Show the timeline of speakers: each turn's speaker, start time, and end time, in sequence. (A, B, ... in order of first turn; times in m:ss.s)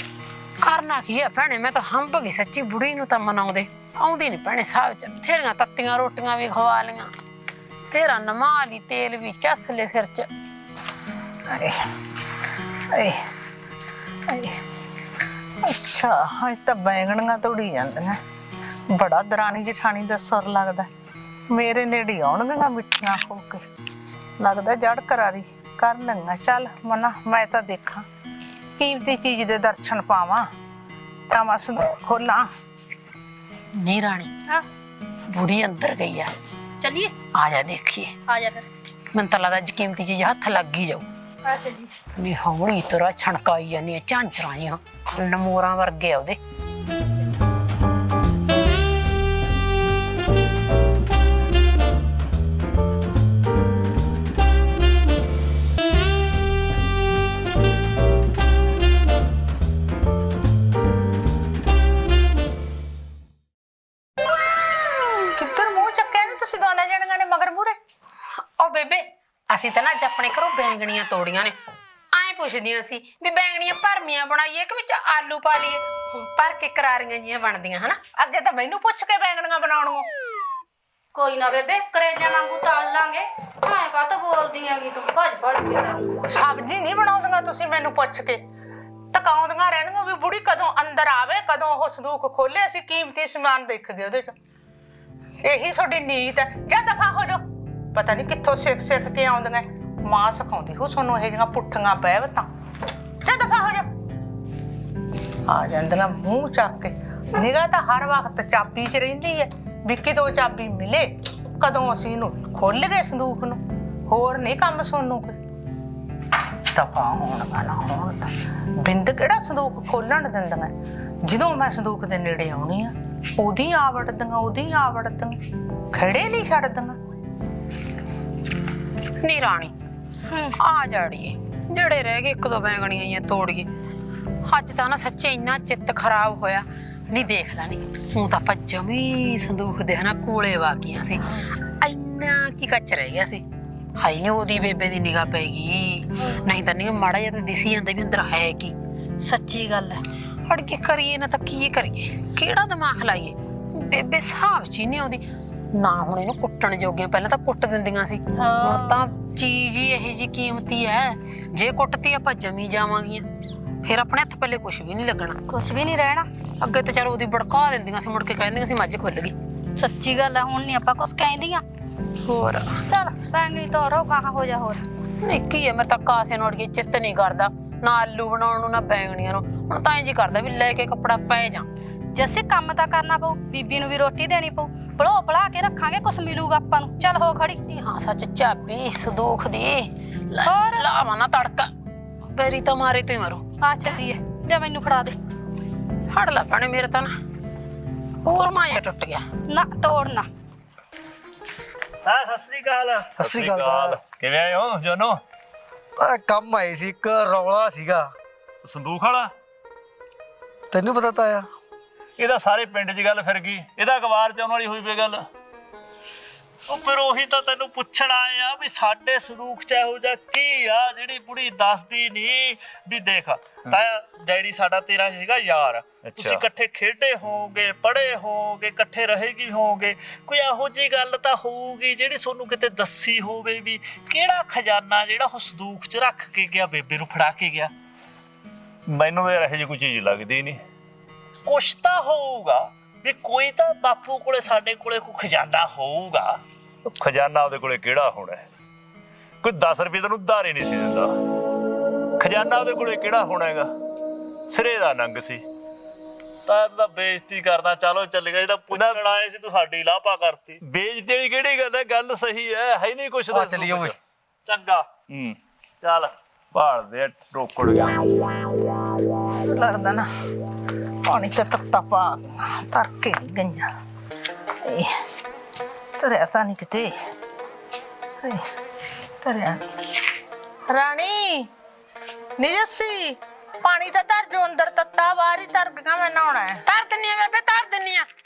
0:00.6-0:07.1 A
0:07.9-0:10.3 A
0:11.5-0:11.9 B
0:12.9-0:13.2 B
0:14.3-0:14.6 B
0:15.6-0:18.2 B
0:18.9-0:20.9 B
0:21.5-0:23.6 B
0:24.4-0:28.0 B
0:28.8-0:30.5 B
0:31.3-0:32.5 B
0:33.8-0:34.3 A
0:35.3-0:36.3 A
0:36.8-0:37.1 C
0:37.3-0:38.1 A
0:38.3-0:38.7 C
0:39.1-0:41.0 A
0:41.4-0:41.9 C
0:42.2-0:46.4 A
1:05.4-1:07.8 B
1:08.6-1:11.5 A
1:12.1-1:18.0 A
1:18.2-1:20.0 B
1:21.1-1:26.2 C
1:26.3-1:28.4 B
1:29.1-1:34.3 B
1:35.4-1:42.5 B
1:43.2-1:43.9 B
1:45.5-1:55.4 B
1:56.7-2:00.7 B
2:01.2-2:05.4 B
2:05.9-2:07.0 B
2:09.2-2:09.7 A
2:10.3-2:10.6 C
2:10.6-2:13.7 A
2:14.5-2:23.4 A
2:24.0-2:28.7 A
2:29.2-2:30.0 C
2:30.5-2:35.2 A
2:35.7-2:43.2 A
2:38.4-2:39.0 C
2:43.8-2:45.4 A
2:45.5-2:46.2 C
2:46.6-2:49.3 A
2:49.8-2:51.6 C
2:52.2-2:52.8 A
2:52.9-2:54.8 C
2:55.2-3:01.7 A
3:02.1-3:07.6 C
3:07.7-3:11.7 A
3:10.4-3:10.8 C
3:12.3-3:13.4 A
3:13.6-3:15.2 C
3:16.1-3:17.1 A
3:18.2-3:19.2 A
3:19.5-3:20.2 C
3:22.0-3:25.2 D
3:23.2-3:24.0 E
3:26.0-3:28.1 E
3:28.6-3:29.3 D
3:30.7-3:31.5 E
3:32.2-3:35.2 D
3:36.7-3:57.7 D
3:58.9-4:00.6 D
4:01.4-4:08.4 D
4:09.4-4:11.1 D
4:12.2-4:13.7 D
4:14.5-4:15.4 D
4:16.4-4:28.1 D
4:23.3-4:24.0 E
4:29.4-4:30.0 B
4:31.1-4:33.7 B
4:34.6-4:34.9 B
4:36.0-4:36.9 B
4:38.2-4:38.5 B
4:39.2-4:39.7 B
4:40.7-4:41.5 B
4:42.4-4:46.6 B
4:46.6-4:48.1 A